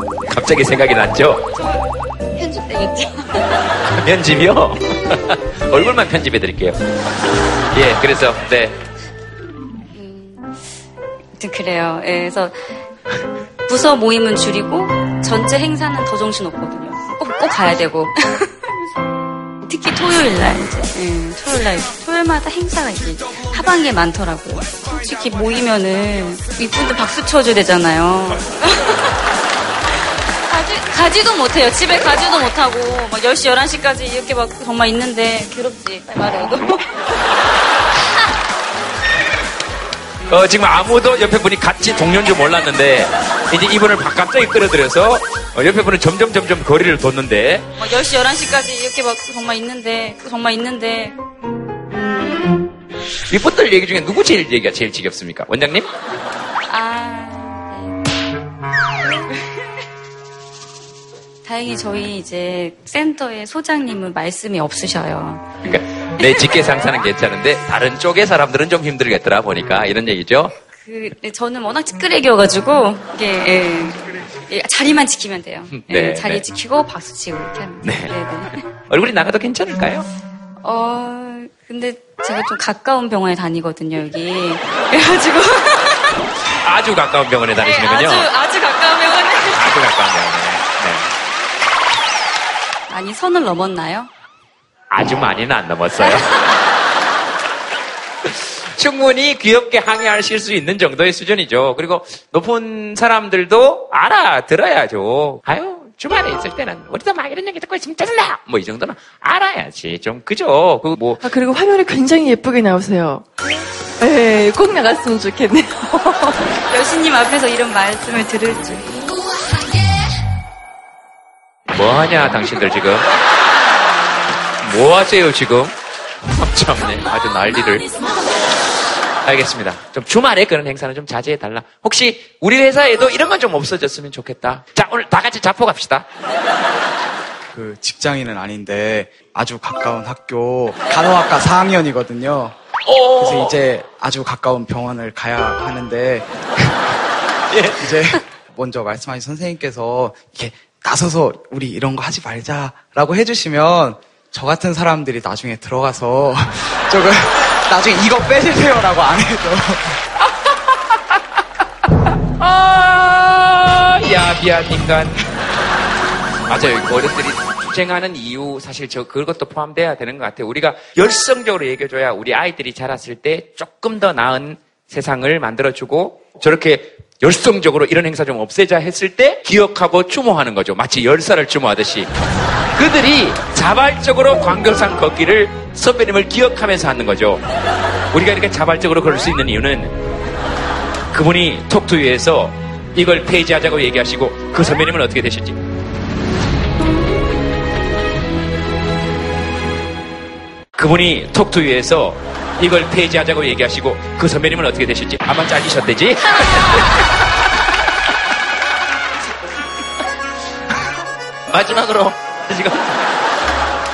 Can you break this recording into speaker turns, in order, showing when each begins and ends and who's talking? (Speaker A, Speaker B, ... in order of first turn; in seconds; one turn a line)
Speaker A: 0.2-1.4
Speaker B: 1.5-1.8
Speaker B: 2.4-3.4
Speaker A: 3.8-6.8
Speaker A: 7.7-8.8
Speaker B: 9.9-10.6
Speaker B: 11.4-12.8
Speaker B: 13.7-18.4
Speaker B: 19.6-29.0
Speaker B: 30.5-36.8
Speaker A: 40.3-47.7
Speaker B: 47.8-51.1
Speaker A: 53.3-55.9
Speaker B: 56.7-58.0
Speaker B: 61.4-65.5
Speaker A: 65.6-70.5
Speaker B: 66.2-66.5
Speaker B: 70.7-78.6
Speaker A: 75.7-76.4
Speaker A: 77.8-78.2
Speaker A: 78.9-80.1
Speaker B: 80.6-86.0
Speaker A: 86.6-88.3
Speaker B: 87.6-89.7
Speaker A: 89.5-91.1
Speaker B: 92.9-94.1
Speaker A: 94.9-96.3
Speaker B: 96.0-96.3
Speaker A: 98.2-111.2
Speaker C: 111.2-113.2
Speaker C: 114.0-116.3
Speaker B: 116.5-119.1
Speaker A: 121.7-123.1
Speaker A: 124.6-128.0
Speaker A: 129.2-136.1
Speaker D: 137.5-142.6
Speaker A: 142.8-143.6
Speaker D: 143.2-146.8
Speaker A: 147.5-147.8
Speaker D: 147.8-160.0
Speaker A: 162.4-165.2
Speaker A: 166.5-182.1
Speaker A: 182.7-187.4
Speaker A: 188.1-189.9
Speaker A: 191.1-195.6
Speaker A: 200.7-207.0
Speaker A: 211.5-213.1